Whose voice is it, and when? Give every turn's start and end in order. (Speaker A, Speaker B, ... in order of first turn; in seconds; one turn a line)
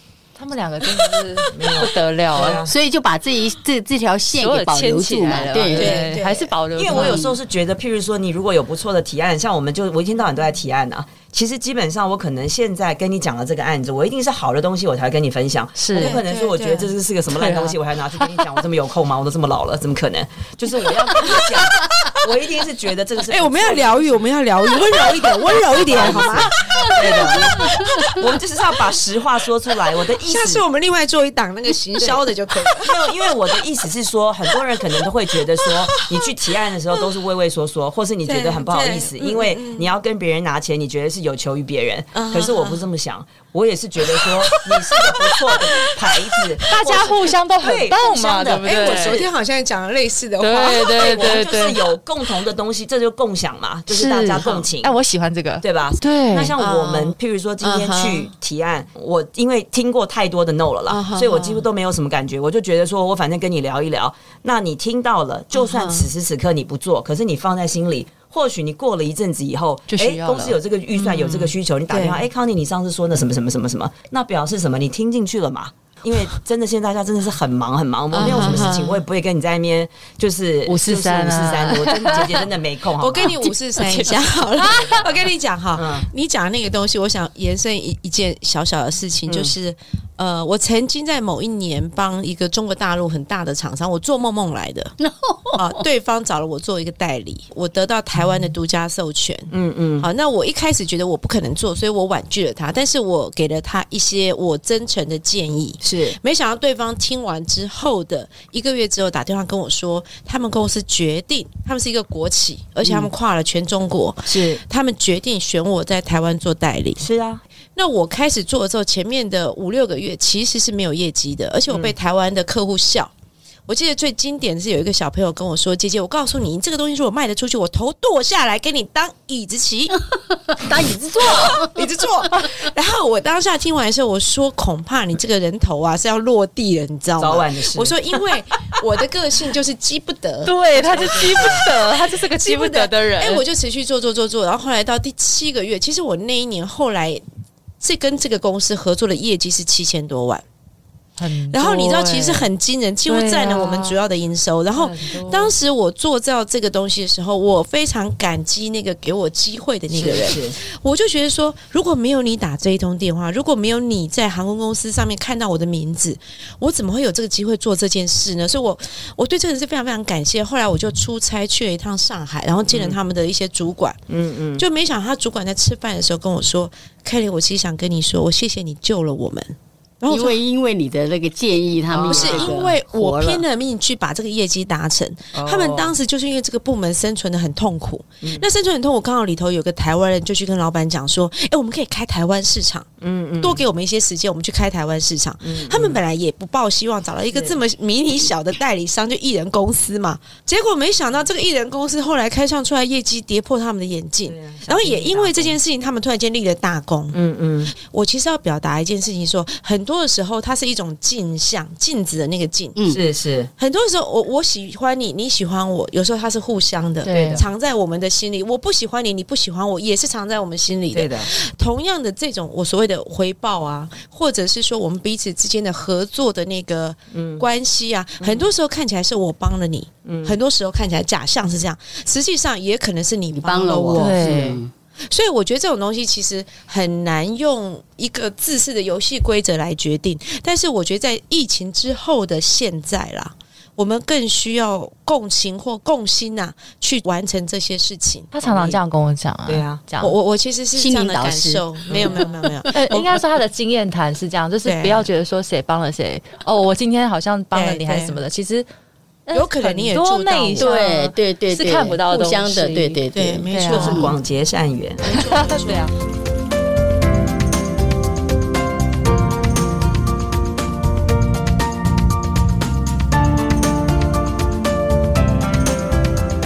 Speaker A: 0.4-2.7
Speaker B: 1.5-2.7
Speaker C: 2.6-6.0
Speaker A: 4.3-7.3
Speaker D: 5.7-6.5
Speaker B: 6.7-24.2
Speaker C: 6.9-7.3
Speaker A: 15.8-16.2
Speaker D: 15.9-16.9
Speaker A: 17.3-18.3
Speaker D: 23.3-28.1
Speaker B: 25.0-30.6
Speaker C: 27.6-27.9
Speaker D: 30.1-33.0
Speaker B: 32.0-49.3
Speaker D: 35.6-36.3
Speaker D: 38.2-39.9
Speaker D: 42.1-42.9
Speaker D: 44.1-45.9
Speaker A: 46.6-49.2
Speaker D: 48.6-51.3
Speaker A: 50.4-51.9
Speaker B: 51.0-54.9
Speaker A: 53.9-56.5
Speaker B: 55.6-83.4
Speaker D: 56.6-58.3
Speaker D: 60.9-61.7
Speaker D: 65.5-66.1
Speaker A: 69.9-70.6
Speaker D: 71.0-72.3
Speaker D: 78.1-79.0
Speaker A: 80.7-82.5
Speaker D: 83.0-94.9
Speaker A: 83.8-85.0
Speaker B: 84.8-85.0
Speaker B: 85.8-86.1
Speaker B: 89.3-89.5
Speaker C: 95.0-95.8
Speaker D: 95.5-117.1
Speaker B: 99.5-100.1
Speaker B: 105.8-106.2
Speaker B: 112.8-113.1
Speaker B: 114.3-114.6
Speaker B: 117.0-117.4
Speaker D: 117.8-123.1
Speaker D: 123.7-130.0
Speaker C: 130.5-131.8
Speaker D: 131.2-147.2
Speaker B: 137.2-137.9
Speaker A: 140.4-143.4
Speaker B: 141.2-141.5
Speaker D: 147.8-150.4
Speaker A: 151.2-152.5
Speaker D: 151.5-174.0
Speaker A: 153.1-154.0
Speaker A: 154.7-155.5
Speaker B: 159.9-160.6
Speaker B: 172.7-173.0
Speaker B: 174.1-174.7
Speaker D: 174.6-180.4
Speaker C: 180.1-183.4
Speaker B: 181.9-182.7
Speaker D: 182.0-192.9
Speaker B: 185.3-185.9
Speaker B: 193.0-193.6
Speaker D: 193.4-212.8
Speaker B: 195.4-196.0
Speaker B: 197.3-197.6
Speaker B: 204.3-205.6
Speaker B: 207.1-207.7
Speaker B: 212.9-213.5
Speaker D: 213.6-248.3
Speaker A: 217.1-217.4
Speaker B: 217.1-217.5
Speaker B: 220.9-221.3
Speaker B: 227.1-227.5
Speaker B: 228.2-228.5
Speaker B: 230.1-230.4
Speaker C: 233.4-234.7
Speaker A: 233.9-234.6
Speaker A: 248.3-250.2
Speaker B: 248.4-248.8
Speaker B: 249.5-249.8
Speaker D: 250.0-252.9
Speaker C: 250.8-251.7
Speaker B: 251.9-252.3
Speaker C: 252.7-253.0
Speaker A: 252.7-258.7
Speaker D: 254.7-255.1
Speaker D: 257.5-258.2
Speaker A: 259.3-263.0
Speaker D: 259.3-260.7
Speaker C: 260.6-264.1
Speaker D: 263.1-264.1
Speaker A: 263.5-264.1
Speaker B: 263.7-265.0
Speaker D: 265.0-265.9
Speaker A: 265.1-265.9